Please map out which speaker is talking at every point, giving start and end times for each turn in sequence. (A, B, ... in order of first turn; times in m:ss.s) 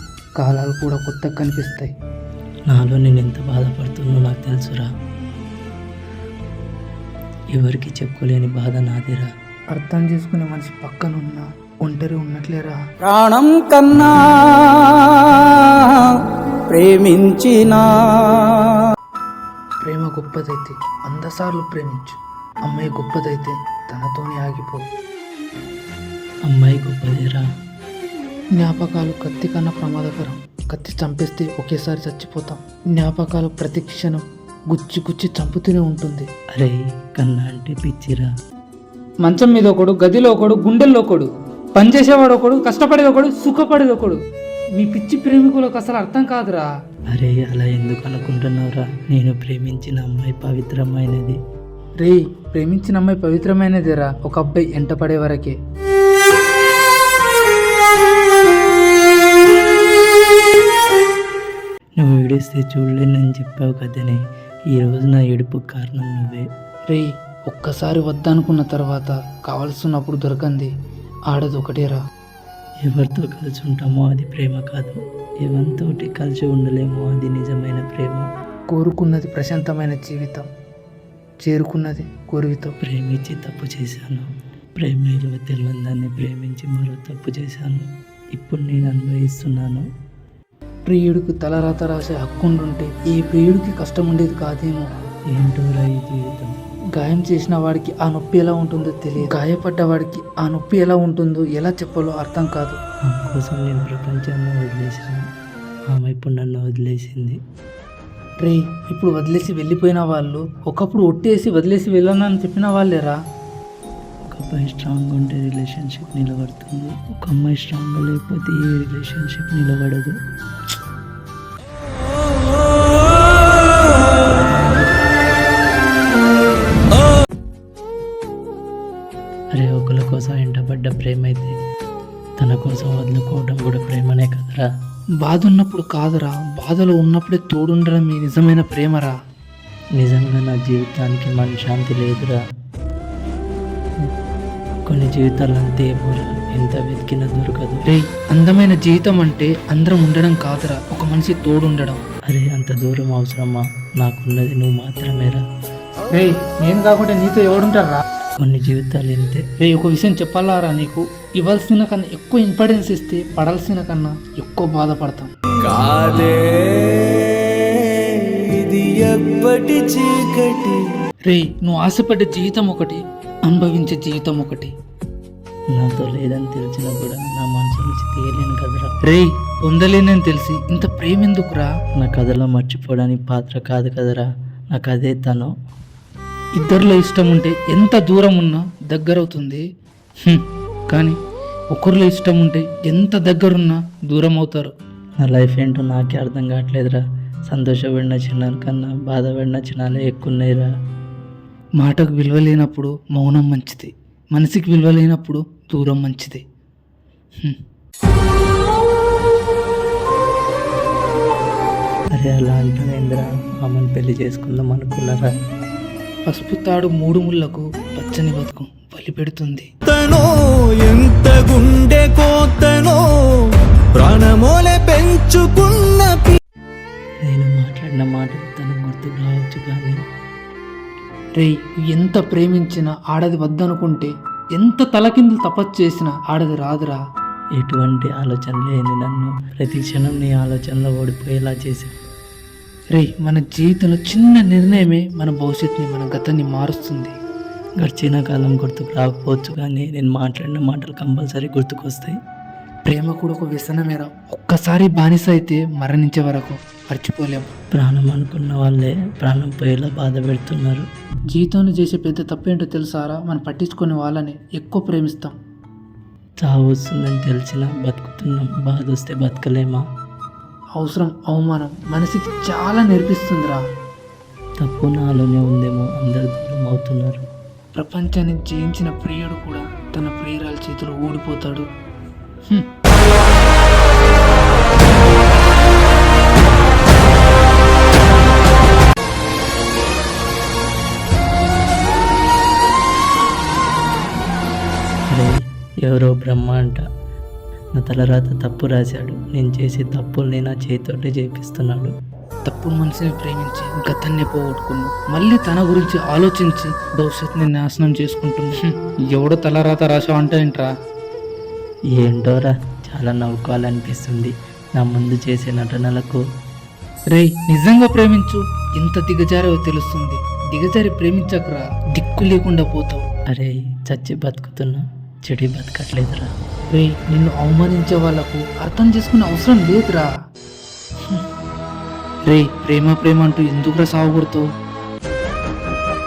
0:00.4-0:01.9 A
0:02.7-0:04.9 B
0:07.5-0:09.3 B
0:09.7-0:12.8 A
0:13.0-0:16.2 C
0:16.7-0:18.8 C
0:19.8-0:24.8 A
0:26.5-0:27.4 B
0:28.6-0:36.3 A
0:36.5-0:38.3 B
0:39.2-0:44.2 A
0:44.8-0:46.7 A
0:47.1-0:51.4 B
0:52.0-0:55.6 A
1:02.0-1:04.2 B
1:04.7-1:06.5 B
1:06.9-1:10.7 A
1:11.3-1:12.0 A
1:12.8-1:18.3 B
1:18.7-1:20.4 A
1:21.4-1:22.7 A
1:22.8-1:24.3 B
1:24.8-1:29.8 B
1:30.9-1:34.9 A
1:35.3-1:36.5 B
1:37.0-1:42.8 A
1:43.0-1:45.2 B
1:45.9-1:47.4 B
1:48.4-1:53.2 A
1:54.3-2:00.2 B
2:09.6-2:11.5 B
2:12.4-2:14.7 B
2:15.2-2:19.1 A
2:20.0-2:22.4 B
2:24.9-2:27.8 B
2:27.9-2:32.0 A
2:32.3-2:35.4 B
2:36.1-2:38.0 A
2:38.4-2:39.5 B
2:39.6-2:45.3 A
2:45.6-2:51.0 D
2:51.3-2:54.7 A
2:55.7-2:58.9 B
2:59.0-3:01.7 A
3:02.0-3:05.5 B
3:06.6-3:09.6 A
3:10.3-3:11.2 A
3:11.7-3:14.7 A
3:15.2-3:20.7 B
3:21.8-3:26.4 A
3:32.2-3:35.3 B
3:36.3-3:39.7 A
3:39.9-3:46.4 D
3:47.2-3:50.0 B
3:51.4-3:57.0 A
3:57.6-4:02.0 B
4:03.0-4:07.1 A
4:07.8-4:12.2 B
4:12.9-4:17.5 A
4:17.7-4:20.9 B
4:21.3-4:25.3 A
4:26.4-4:29.8 B
4:30.8-4:33.6 A
4:34.6-4:37.2 B
4:37.8-4:41.7 A
4:55.1-4:56.8 B
4:57.8-5:01.9 B
5:02.5-5:10.7 A
5:12.0-5:16.2 B
5:17.1-5:23.0 A
5:23.3-5:26.3 B
5:26.7-5:30.1 A
5:32.3-5:34.5 A